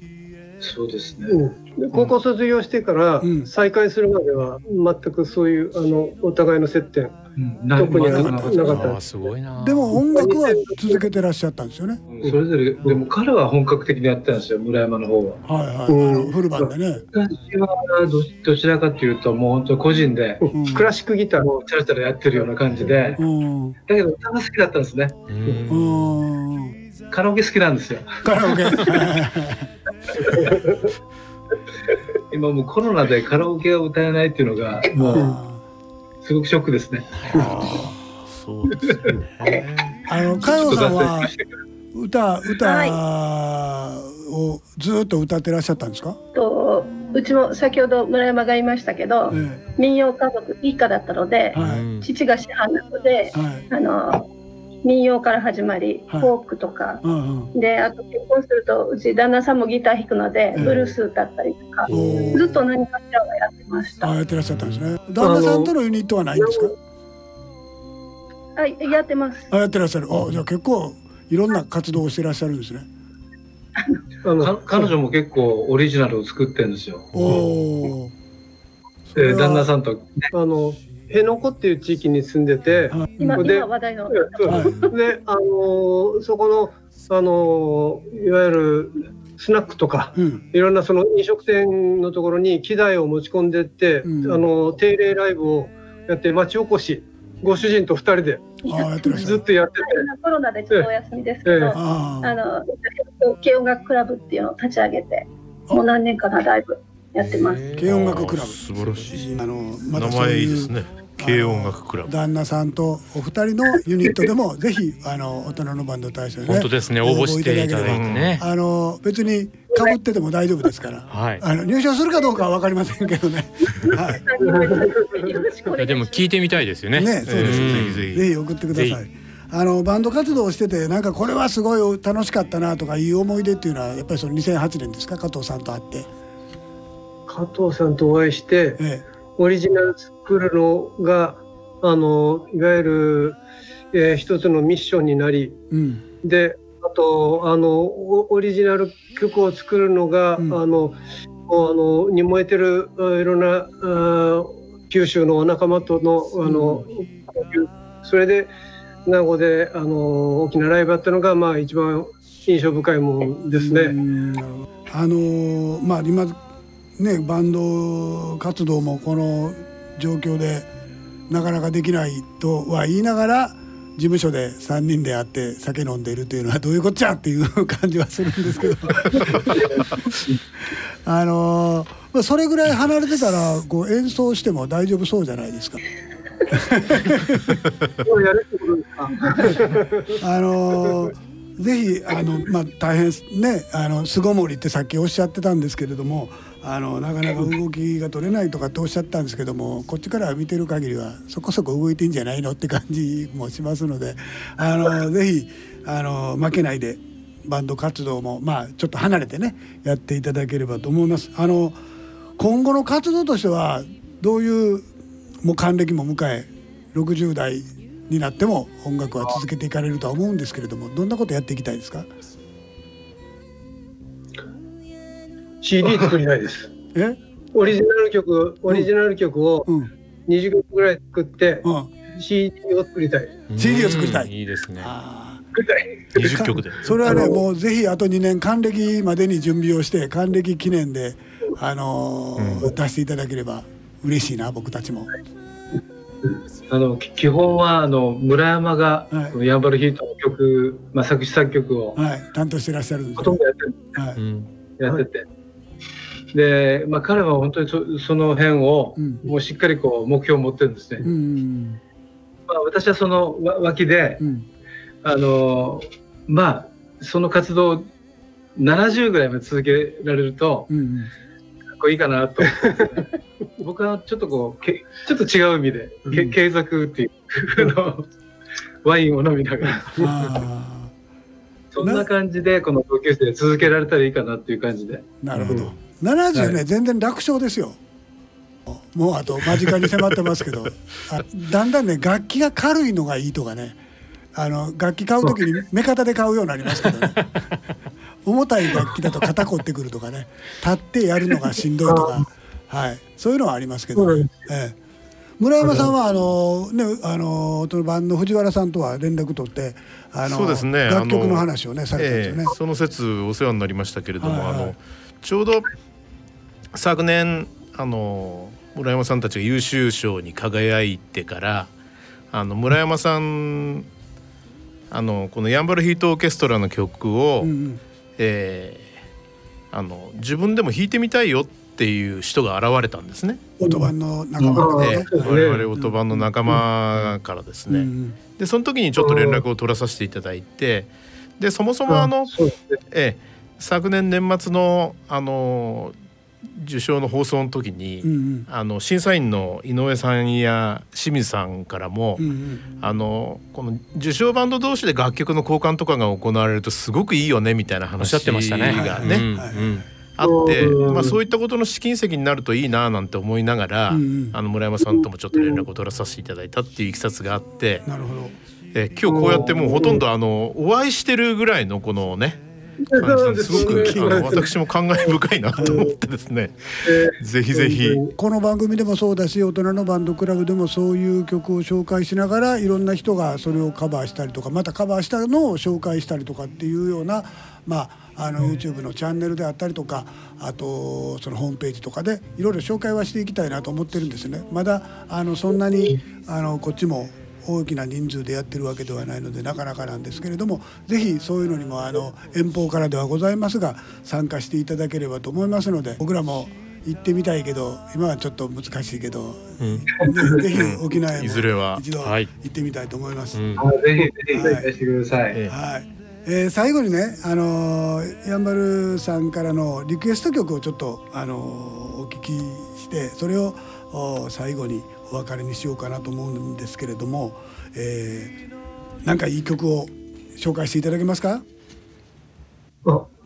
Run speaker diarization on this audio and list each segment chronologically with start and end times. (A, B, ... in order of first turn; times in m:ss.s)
0:00.6-0:01.4 A
0:01.3-0:07.2 B
0:03.2-0:03.5 C
0:07.4-0:08.8 A
0:07.7-0:09.0 B
0:08.0-0:08.8 C
0:08.6-0:10.0 D
0:09.6-0:12.0 C
0:09.9-0:11.1 B
0:12.1-0:15.4 A
0:12.2-0:13.0 B
0:15.4-0:17.0 C
0:15.9-0:16.7 B
0:17.1-0:20.4 A
0:20.4-0:21.5 B
0:20.5-0:20.9 C
0:21.4-0:23.2 A
0:23.2-0:23.8 C
0:23.9-0:25.2 A
0:25.3-0:26.1 D
0:25.7-0:26.7 C
0:27.1-0:28.8 A
0:28.2-0:29.7 C
0:30.2-0:30.9 B
0:32.3-0:35.2 A
0:35.0-0:35.6 C
0:36.2-0:37.2 A
0:37.2-0:37.7 D
0:37.3-0:40.1 E
0:37.3-0:38.0 C
0:40.1-0:41.4 C
0:40.4-0:41.4 A
0:41.9-0:46.2 C
0:42.6-0:43.0 F
0:46.3-0:54.3 F
0:49.3-0:49.6 C
0:51.5-0:51.9 C
0:51.6-0:52.1 D
0:53.3-0:53.6 C
0:54.8-1:04.1 F
0:56.1-0:56.3 C
0:57.0-0:57.5 C
1:00.5-1:00.9 C
1:01.9-1:02.6 C
1:04.0-1:06.7 C
1:05.2-1:05.7 B
1:06.4-1:06.7 B
1:08.6-1:09.5 F
1:09.5-1:12.9 C
1:14.2-1:14.9 B
1:14.4-1:17.5 A
1:17.1-1:18.1 C
1:19.1-1:19.7 C
1:19.1-1:20.3 A
1:20.3-1:38.6 B
1:22.9-1:23.4 C
1:23.2-1:24.9 F
1:24.4-1:24.8 C
1:30.2-1:30.4 C
1:34.0-1:34.4 C
1:38.6-1:47.8 F
1:38.6-1:39.4 C
1:39.1-1:40.0 B
1:41.4-1:41.8 B
1:41.7-1:42.4 C
1:47.2-1:47.9 D
1:47.8-2:04.2 C
1:47.8-1:49.2 E
1:49.8-1:52.1 E
1:56.4-1:58.4 D
1:57.8-1:58.4 E
2:01.1-2:01.4 D
2:04.2-2:06.6 F
2:04.4-2:05.3 B
2:05.8-2:08.0 D
2:06.9-2:16.1 C
2:07.2-2:08.2 E
2:08.7-2:09.0 D
2:17.3-2:18.8 B
2:18.8-2:19.0 C
2:19.4-2:23.4 B
2:23.9-2:25.6 B
2:25.7-2:26.0 C
2:26.2-2:38.5 B
2:36.4-2:36.8 C
2:39.0-2:44.0 B
2:43.5-2:46.4 C
2:47.0-2:50.7 C
2:51.3-2:59.6 C
3:01.0-3:05.8 C
3:06.5-3:07.6 C
3:08.0-3:10.2 B
3:10.2-3:31.8 C
3:32.4-3:34.9 C
3:35.4-3:42.1 C
3:45.6-3:46.7 B
3:47.5-3:49.7 B
3:50.3-3:53.4 B
3:51.6-3:51.9 C
3:53.5-3:54.9 D
3:53.5-3:55.4 C
3:55.6-3:56.2 B
3:56.1-3:57.0 E
3:56.2-4:05.1 C
3:57.0-3:57.4 B
4:02.4-4:02.7 E
4:06.7-4:12.0 A
4:12.0-4:13.4 C
4:13.2-4:13.8 A
4:13.9-4:14.2 C
4:14.2-4:14.5 E
4:14.8-4:15.2 A
4:16.3-4:21.1 A
4:19.0-4:19.2 C
4:21.0-4:21.8 C
4:22.5-4:24.2 A
4:24.2-4:24.4 C
4:25.0-4:27.9 A
4:28.6-4:30.7 A
4:30.7-4:31.1 C
4:31.8-4:38.1 A
4:38.8-4:40.1 A
4:40.0-4:40.9 C
4:41.7-4:45.6 A
4:41.8-4:42.0 C
4:45.2-4:47.8 C
4:45.4-4:45.7 E
4:46.3-4:46.6 A
4:48.6-4:53.8 C
4:54.3-4:57.4 C
4:58.2-5:04.8 C
5:01.8-5:02.2 B
5:04.0-5:04.5 B
5:05.4-5:12.6 C
5:05.6-5:05.9 B
5:10.2-5:15.7 E
5:14.2-5:14.7 C
5:16.7-5:21.7 E
5:22.3-5:23.9 E
5:24.9-5:27.5 E
5:27.4-5:27.8 C
5:28.2-5:28.9 E
5:29.7-5:33.5 E
5:33.6-5:35.9 C
5:33.6-5:33.9 B
5:34.5-5:35.6 B
5:34.7-5:45.9 E
5:37.7-5:38.2 C
5:39.0-5:39.4 B
5:41.9-5:42.8 B
5:46.5-5:52.3 E
5:48.0-5:48.5 C
5:52.2-5:52.6 C
5:52.8-5:59.3 E
5:58.0-5:59.9 D
5:58.7-5:59.8 C
6:00.1-6:07.9 E
6:00.2-6:01.2 B
6:03.9-6:04.4 C
6:05.3-6:05.6 B
6:07.8-6:08.3 C
6:08.7-6:18.0 E
6:09.0-6:10.0 B
6:12.9-6:14.5 B
6:13.5-6:14.5 C
6:15.0-6:15.9 B
6:15.6-6:15.9 C
6:16.8-6:18.1 B
6:18.2-6:53.7 C
6:49.6-6:49.9 D
6:50.0-6:50.4 A
6:50.4-6:51.8 E
6:52.0-6:52.3 D
6:53.3-6:53.7 D
6:53.6-6:55.4 A
6:54.3-6:54.7 C
6:55.5-7:08.3 C
7:09.0-7:11.4 C